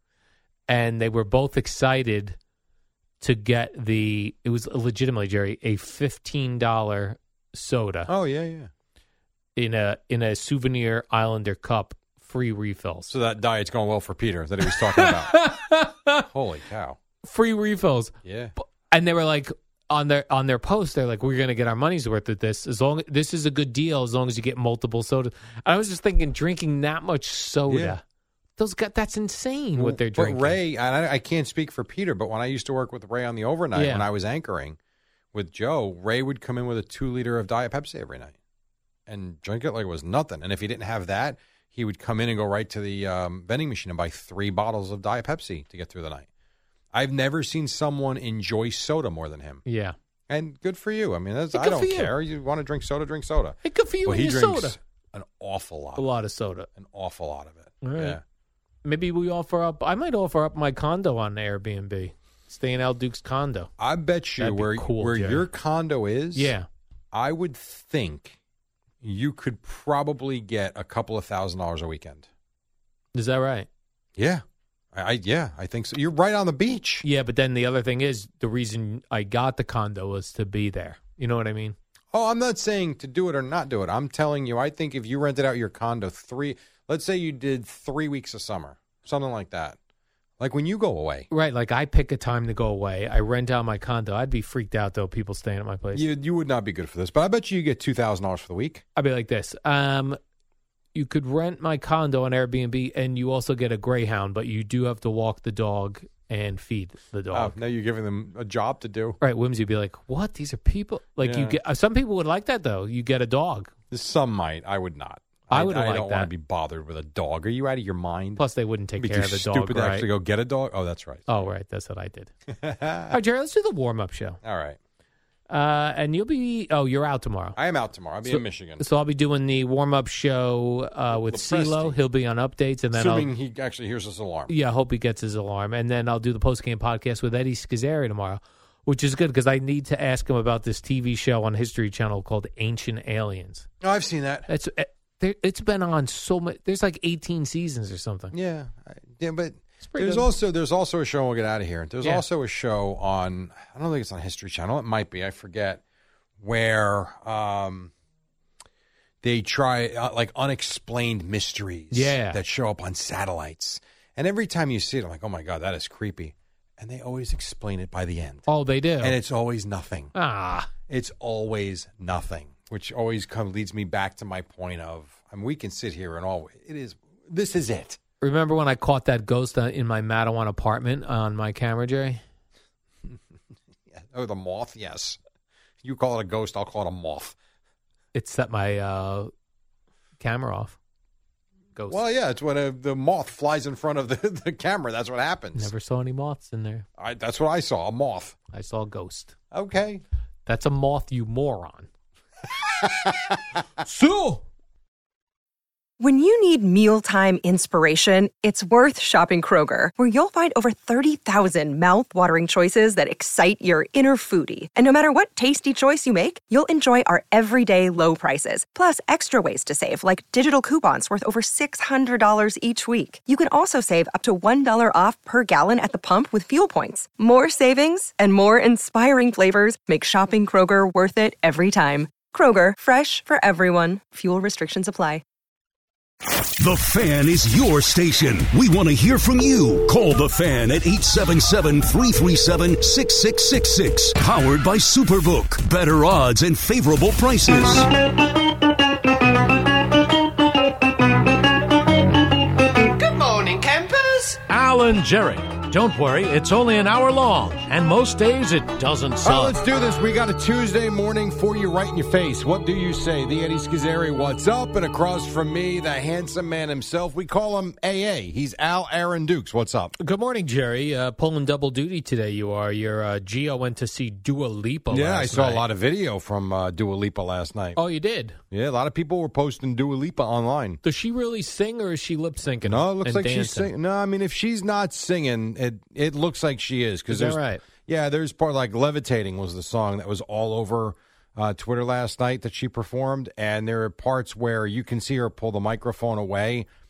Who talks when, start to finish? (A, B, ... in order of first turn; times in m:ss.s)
0:00.7-0:02.4 A
0:03.2-0:08.1 A
0:08.1-0:08.7 B
0:09.6-0:13.1 A
0:13.1-0:15.4 B
0:14.7-0:16.2 A
0:16.3-0:17.0 B
0:17.2-0:18.1 A
0:18.2-0:18.5 B
0:18.9-0:28.0 A
0:27.7-0:27.9 B
0:28.6-0:30.6 A
0:29.8-0:34.8 B
0:33.7-0:34.0 A
0:35.3-0:38.3 B
0:39.1-0:46.3 B
0:46.9-0:49.6 B
0:49.6-0:50.0 A
0:50.3-0:56.0 B
0:51.5-0:52.1 A
0:53.6-0:54.8 A
0:56.0-0:56.7 A
0:56.8-0:58.2 B
0:57.8-0:58.2 A
0:58.8-1:03.7 A
1:03.8-1:06.5 B
1:04.4-1:05.4 A
1:06.3-1:06.7 A
1:07.1-1:08.4 B
1:09.0-1:12.3 B
1:13.1-1:13.7 A
1:14.2-1:14.4 B
1:14.9-1:17.0 B
1:17.0-1:21.8 A
1:22.1-1:29.8 B
1:30.4-1:31.3 B
1:31.3-1:36.0 A
1:35.9-1:38.8 B
1:39.0-1:40.2 A
1:40.9-1:47.5 A
1:47.3-1:49.2 B
1:49.2-1:53.7 A
1:51.2-1:51.6 B
1:53.9-1:58.4 B
1:55.5-1:56.3 A
1:58.4-2:00.1 A
1:59.0-2:01.3 B
2:01.3-2:02.3 A
2:02.6-2:03.2 B
2:03.1-2:04.4 A
2:04.4-2:04.8 B
2:05.5-2:07.6 A
2:07.6-2:08.8 B
2:08.2-2:13.3 A
2:11.1-2:12.0 B
2:12.9-2:14.5 B
2:14.5-2:23.7 A
2:23.8-2:24.5 B
2:24.5-2:28.3 A
2:28.3-2:35.8 B
2:29.8-2:30.3 A
2:36.4-2:37.9 B
2:39.2-2:48.5 B
2:41.9-2:42.4 A
2:48.5-2:49.2 A
2:49.0-2:50.1 B
2:50.1-2:50.7 A
2:50.9-2:58.0 B
2:58.2-3:02.2 A
3:03.9-3:05.2 B
3:05.8-3:07.4 B
3:08.1-3:09.3 A
3:10.2-3:10.8 A
3:11.8-3:12.0 A
3:11.9-3:15.7 B
3:15.5-3:16.8 A
3:17.0-3:18.4 B
3:18.5-3:19.4 A
3:19.5-3:20.0 B
3:20.4-3:21.9 A
3:22.8-3:23.4 B
3:23.8-3:24.4 A
3:26.0-3:55.2 C
3:56.4-4:07.9 D
4:12.8-4:19.6 E
4:19.2-4:29.9 B
4:30.0-4:35.6 A
4:34.9-4:37.8 B
4:37.8-4:38.4 A
4:38.5-4:40.8 B
4:40.8-4:43.7 A
4:42.6-4:56.7 B
4:47.1-4:47.6 A